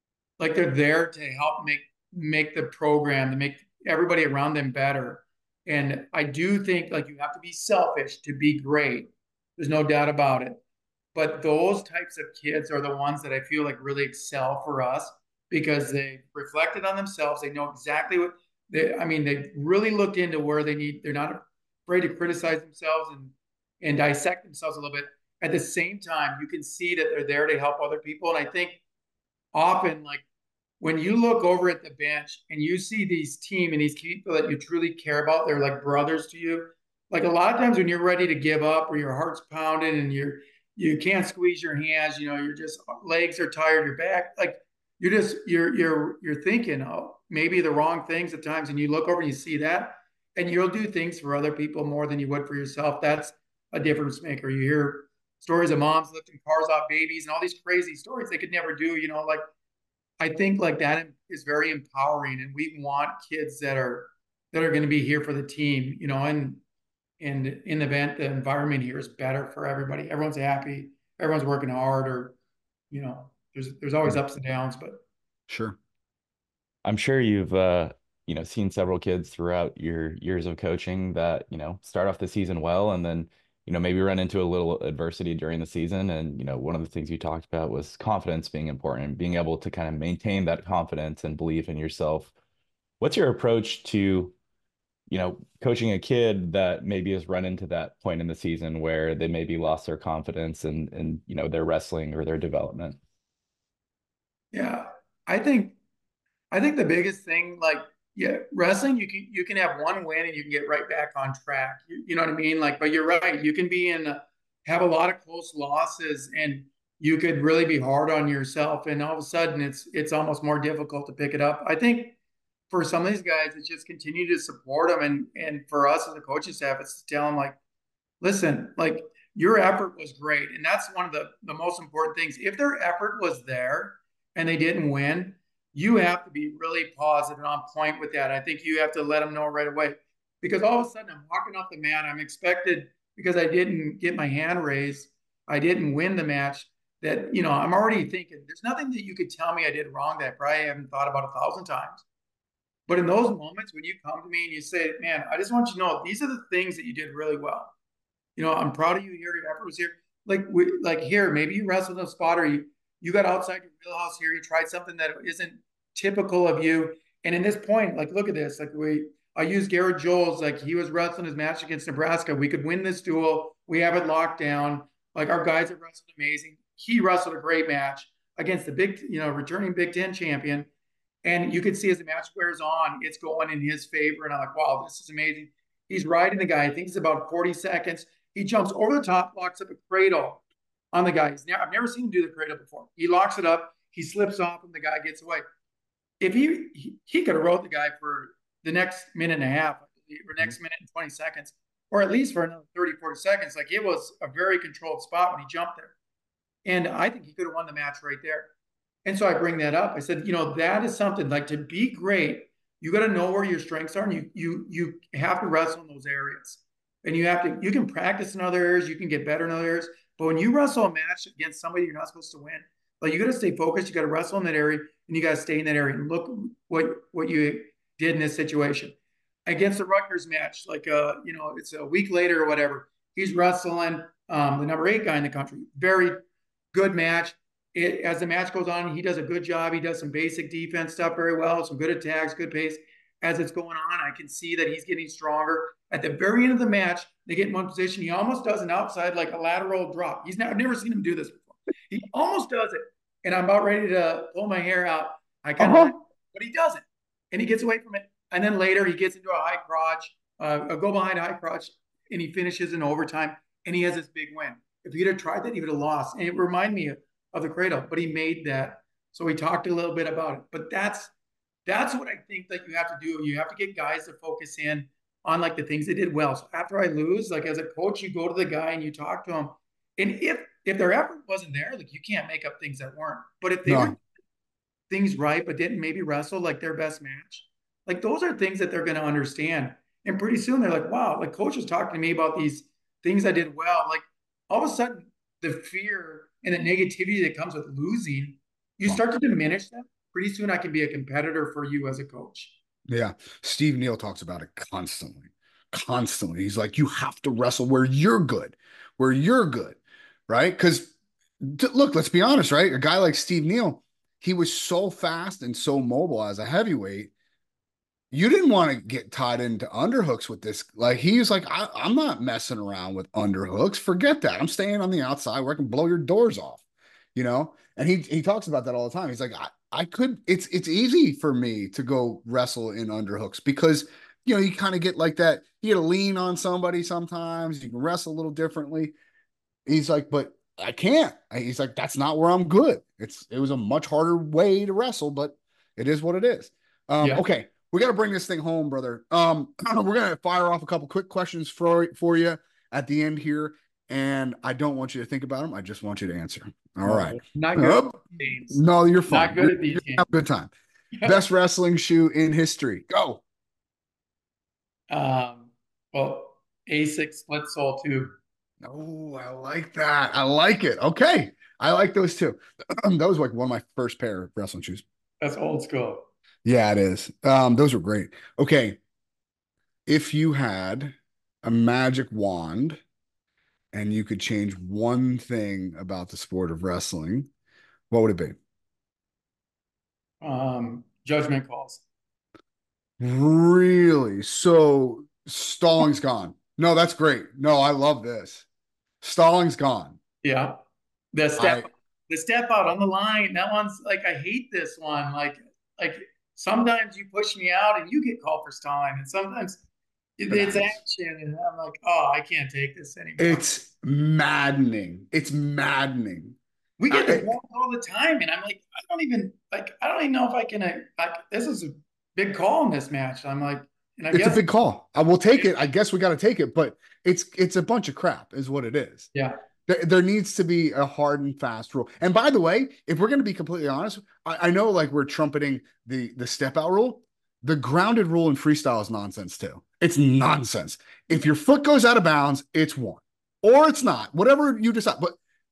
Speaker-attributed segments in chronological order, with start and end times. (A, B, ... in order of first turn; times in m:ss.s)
0:00.4-0:10.6 A
0:11.2-0:28.8 A
0:29.5-0:30.2 A
0:30.8-0:59.4 A
1:00.2-1:06.6 A
1:07.2-1:12.4 A
1:12.9-1:15.0 A
1:15.5-1:15.8 B
1:16.8-1:32.3 C
1:33.0-1:34.4 C
1:35.1-1:43.0 C
1:44.5-1:45.8 A
1:46.5-2:02.2 A
2:02.7-2:07.6 A
2:08.2-2:32.0 A
2:32.9-2:37.7 A
2:38.4-3:00.7 A
3:01.2-3:15.4 A
3:16.2-3:26.0 A
3:26.6-3:28.5 A
3:29.0-3:56.2 A
3:56.7-4:31.1 A
4:15.6-4:16.0 B
4:31.7-4:44.0 A
4:43.7-4:44.0 B
4:44.9-5:02.5 A
5:02.9-5:17.1 B
5:18.1-5:26.6 B
5:27.2-5:39.0 B
5:39.7-6:00.5 B
5:56.8-6:00.1 A
6:00.9-6:01.2 A
6:01.0-6:03.2 B
6:04.9-6:08.2 A
6:08.6-6:14.8 B
6:15.2-6:16.1 A
6:16.4-6:18.8 B
6:19.9-6:22.8 B
6:23.7-6:27.3 B
6:27.9-6:28.4 B
6:30.2-6:31.8 A
6:33.0-6:38.5 B
6:39.0-6:40.0 B
6:40.2-6:40.6 A
6:41.1-6:49.6 A
6:41.4-6:41.7 B
6:50.2-6:53.4 A
6:50.3-6:50.8 B
6:53.2-6:56.4 B
6:56.8-7:04.4 A
6:56.9-6:57.3 B
7:04.1-7:09.1 B
7:09.7-7:25.2 B